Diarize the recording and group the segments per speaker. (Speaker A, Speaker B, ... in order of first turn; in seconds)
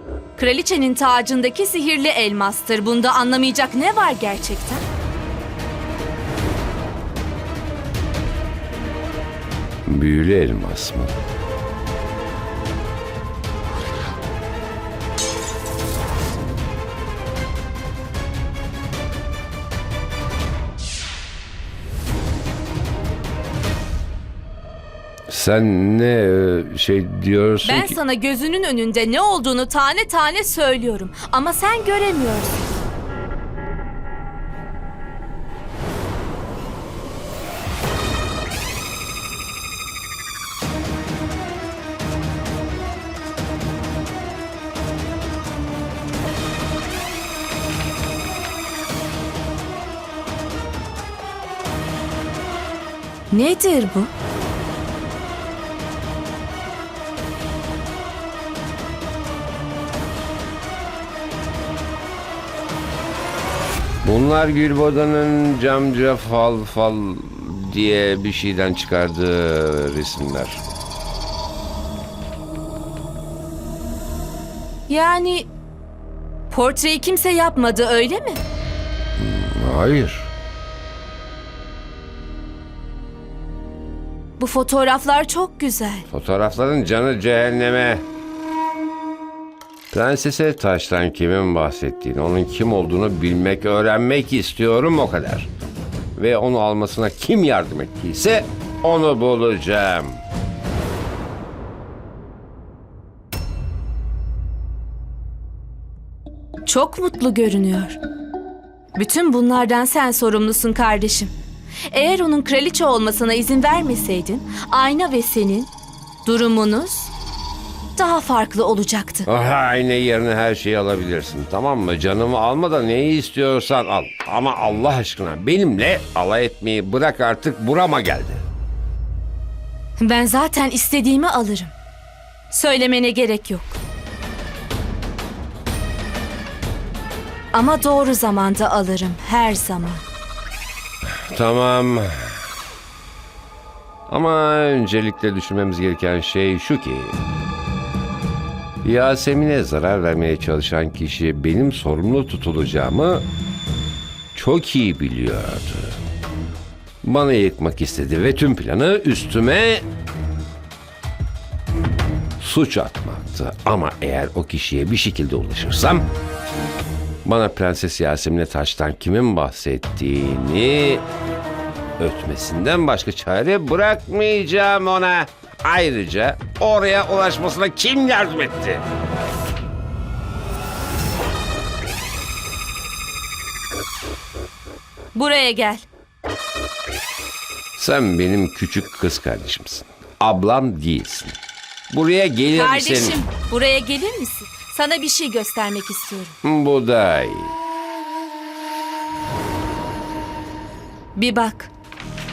Speaker A: 0.4-4.8, 27.6-32.7, 53.3-54.1, 74.9-75.5, 76.5-78.4, 84.4-86.1, 106.7-108.0, 109.0-111.3, 111.9-115.7, 116.2-117.1, 118.0-119.3, 130.0-131.7, 132.5-133.8, 137.5-140.0, 185.2-185.9, 192.5-196.3, 201.2-201.7
Speaker B: 9.9-11.2, 25.3-28.0, 64.0-70.7, 79.2-80.3, 86.1-88.0, 89.9-95.5, 96.2-100.2, 119.3-128.4, 141.2-142.4, 144.1-147.2, 148.8-153.3, 154.3-156.0, 157.0-159.9, 162.4-166.1, 167.2-171.0, 172.0-178.8, 187.8-191.4, 191.9-193.2, 196.4-197.5